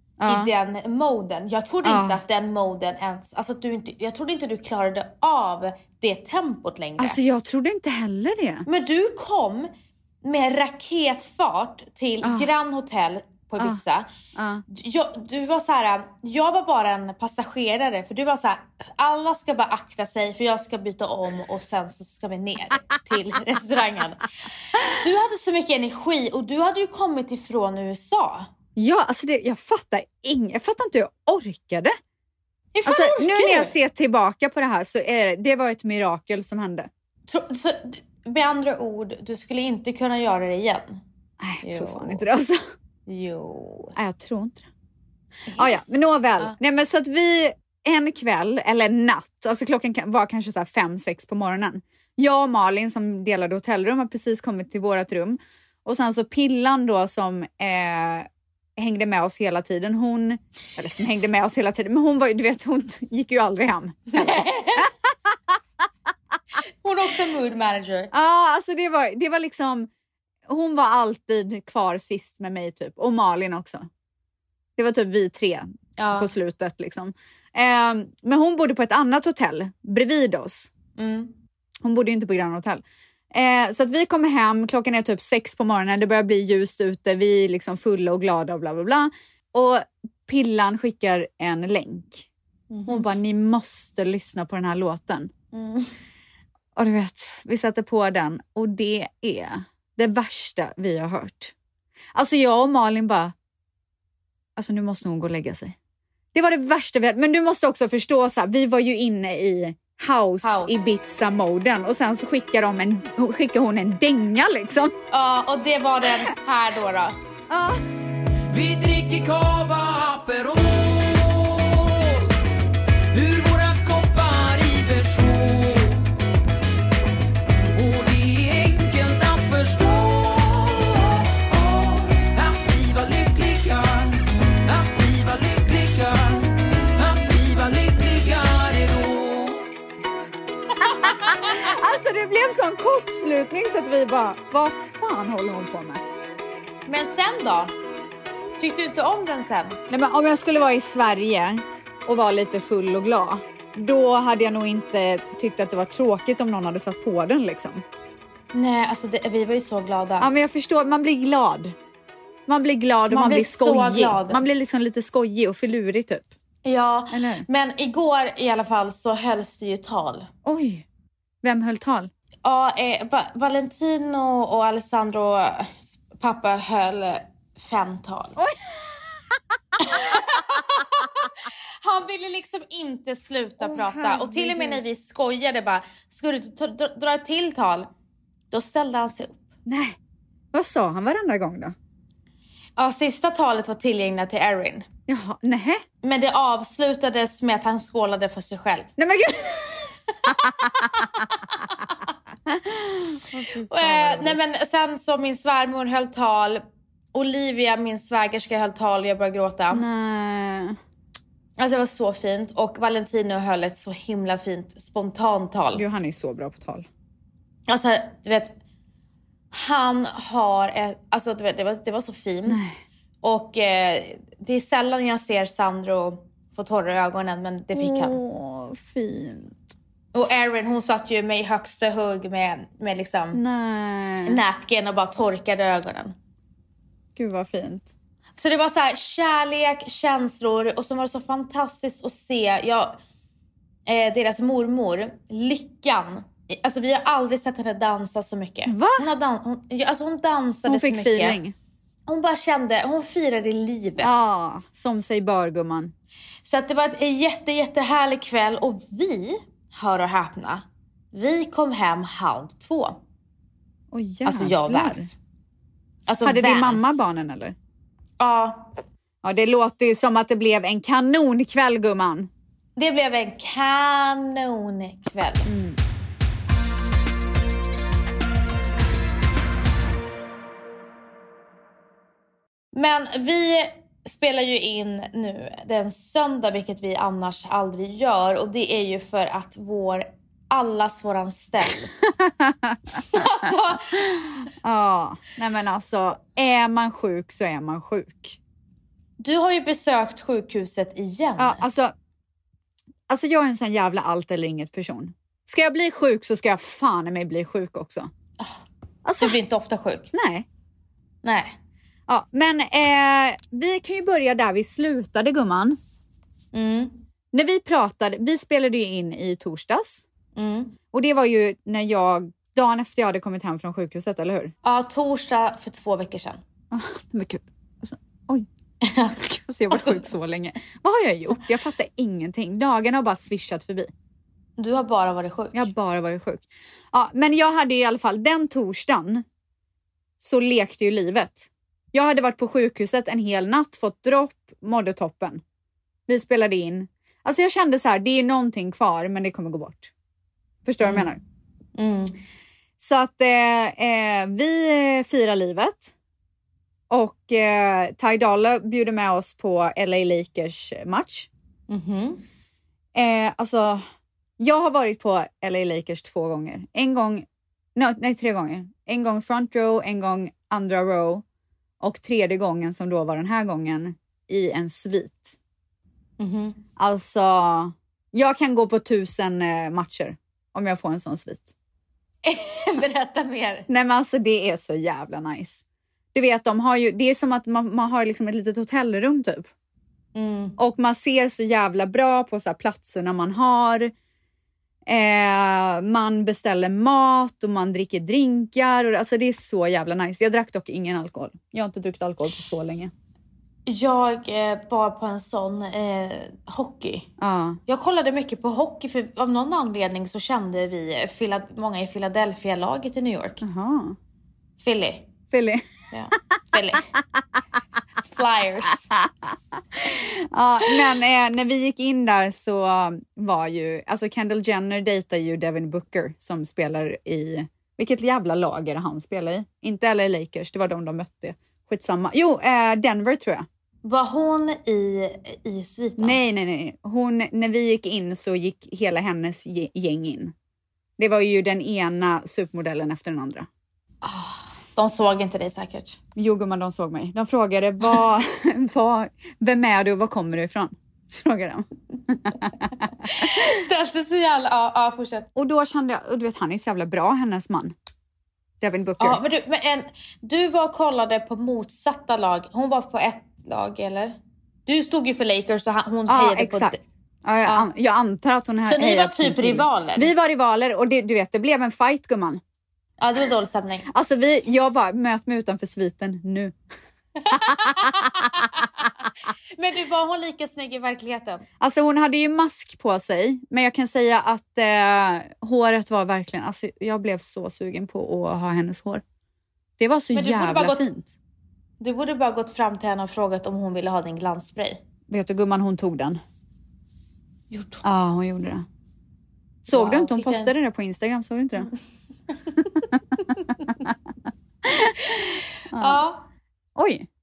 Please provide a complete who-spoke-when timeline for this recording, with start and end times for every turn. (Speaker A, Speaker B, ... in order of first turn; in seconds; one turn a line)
Speaker A: 0.2-0.5
Speaker B: 0.3-7.2
Speaker A: 1.8-2.2
Speaker A: 7.0-8.7
Speaker B: 8.7-9.7
Speaker B: 10.2-14.1
Speaker A: 12.2-12.5
Speaker A: 14.3-14.6
Speaker B: 14.7-24.3
Speaker B: 24.9-28.5
Speaker A: 28.8-31.9
Speaker B: 32.8-33.8
Speaker A: 32.9-36.9
Speaker B: 37.3-41.0
Speaker A: 41.4-42.6
Speaker B: 41.6-42.2
Speaker B: 43.1-44.0
Speaker A: 44.0-44.7
Speaker B: 45.5-46.5
Speaker A: 45.6-65.4
Speaker B: 64.1-64.9
Speaker B: 66.8-68.1
Speaker A: 68.1-69.9
Speaker A: 70.5-73.9
Speaker A: 74.8-80.7
Speaker B: 76.0-76.3
Speaker B: 81.0-81.3
Speaker A: 81.8-92.3
Speaker B: 92.7-93.1
Speaker A: 92.9-95.3
Speaker B: 95.5-95.9
Speaker A: 96.8-101.5
Speaker A: 102.2-103.3
Speaker A: 104.6-105.8
Speaker A: 106.3-114.9
Speaker B: 110.4-110.9
Speaker B: 115.1-117.2
Speaker A: 117.5-117.8
Speaker C: 118.5-122.3
Speaker C: 123.1-126.0
Speaker C: 127.6-139.6
Speaker B: 140.8-141.6
Speaker A: 141.3-146.0
Speaker B: 146.9-147.7
Speaker B: 148.6-149.8
Speaker A: 149.9-157.8
Speaker B: 158.5-160.3
Speaker A: 160.2-161.8
Speaker A: 162.5-166.3
Speaker B: 163.1-164.4
Speaker B: 166.7-170.3
Speaker A: 167.1-167.5
Speaker A: 170.4-170.9
Speaker A: 171.4-172.1
Speaker B: 172.4-178.4
Speaker A: 178.4-179.4
Speaker B: 179.8-187.9
Speaker A: 179.9-180.2
Speaker A: 183.6-184.8
Speaker B: 188.5-189.4
Speaker A: 189.7-190.0
Speaker A: 190.5-191.8
Speaker B: 192.8-194.9
Speaker A: 195.1-195.8
Speaker B: 196.0-198.9
Speaker A: 199.0-200.9
Speaker B: 200.3-202.1
Speaker A: 202.5-204.4
Speaker B: 203.7-206.6
Speaker B: 207.1-209.8
Speaker A: 209.7-210.8
Speaker B: 211.6-215.8
Speaker A: 215.8-216.9
Speaker B: 217.7-218.5
Speaker B: 219.5-222.7
Speaker A: 222.5-222.8
Speaker B: 223.2-228.2
Speaker A: 227.8-229.7
Speaker B: 230.1-233.4
Speaker A: 233.3-234.4
Speaker B: 234.3-236.1
Speaker A: 237.2-237.9
Speaker B: 238.4-243.0
Speaker B: 243.9-251.4
Speaker A: 248.7-249.1
Speaker A: 250.7-251.6
Speaker B: 252.1-254.1
Speaker A: 254.0-255.9
Speaker B: 256.4-263.0
Speaker A: 263.9-265.1
Speaker B: 264.3-265.1
Speaker B: 266.1-267.1
Speaker A: 266.2-267.6
Speaker B: 268.2-268.6
Speaker A: 269.2-272.3
Speaker B: 272.8-275.5
Speaker A: 275.5-275.8
Speaker B: 282.7-292.1
Speaker A: 292.1-293.2
Speaker B: 293.1-294.1
Speaker A: 293.9-298.4
Speaker B: 299.2-301.6
Speaker A: 301.4-301.9
Speaker A: 303.1-308.1
Speaker A: 309.1-309.4
Speaker B: 309.2-310.1
Speaker A: 310.1-310.5
Speaker B: 311.2-311.6
Speaker A: 312.1-315.8
Speaker B: 316.5-316.9
Speaker A: 317.3-320.0
Speaker B: 320.4-320.8
Speaker A: 320.9-324.5
Speaker B: 324.6-326.4
Speaker A: 326.7-328.5
Speaker B: 328.8-330.1
Speaker A: 329.2-333.9
Speaker B: 334.6-335.7
Speaker A: 335.5-339.2
Speaker A: 340.2-345.4
Speaker A: 346.1-349.9
Speaker A: 350.6-351.2
Speaker B: 351.8-352.2
Speaker A: 352.8-355.9
Speaker A: 356.9-361.3
Speaker B: 361.7-362.2
Speaker A: 362.9-363.8
Speaker A: 364.4-371.2
Speaker A: 371.8-375.4
Speaker B: 376.2-376.6
Speaker A: 376.8-381.5
Speaker B: 382.2-383.7
Speaker A: 383.7-389.5
Speaker B: 390.1-390.6
Speaker A: 390.6-393.9
Speaker A: 394.9-402.9
Speaker B: 403.7-407.1
Speaker A: 407.2-407.6
Speaker B: 407.7-413.4
Speaker A: 413.4-414.0
Speaker B: 414.6-415.1
Speaker A: 415.3-415.6
Speaker B: 415.9-416.9
Speaker B: 418.0-418.9
Speaker A: 419.1-433.5
Speaker B: 433.8-436.2
Speaker A: 436.0-440.3
Speaker A: 441.0-443.5
Speaker B: 444.0-446.0
Speaker A: 446.2-453.5
Speaker B: 453.1-455.3
Speaker A: 455.4-457.8
Speaker A: 458.6-459.2
Speaker B: 459.0-464.1
Speaker B: 464.7-466.8
Speaker A: 466.1-472.4
Speaker B: 468.6-470.1
Speaker B: 473.0-473.9
Speaker A: 473.9-476.6
Speaker B: 477.2-478.9
Speaker A: 477.3-478.5
Speaker B: 479.6-481.5
Speaker A: 481.6-489.0
Speaker A: 489.8-491.1
Speaker B: 490.1-490.9
Speaker B: 491.8-494.8
Speaker A: 495.1-496.2
Speaker B: 497.5-497.8
Speaker A: 497.8-498.6
Speaker A: 499.6-501.7
Speaker B: 499.7-500.5
Speaker B: 503.3-503.8
Speaker A: 504.6-506.0
Speaker B: 505.8-506.3
Speaker A: 506.8-507.1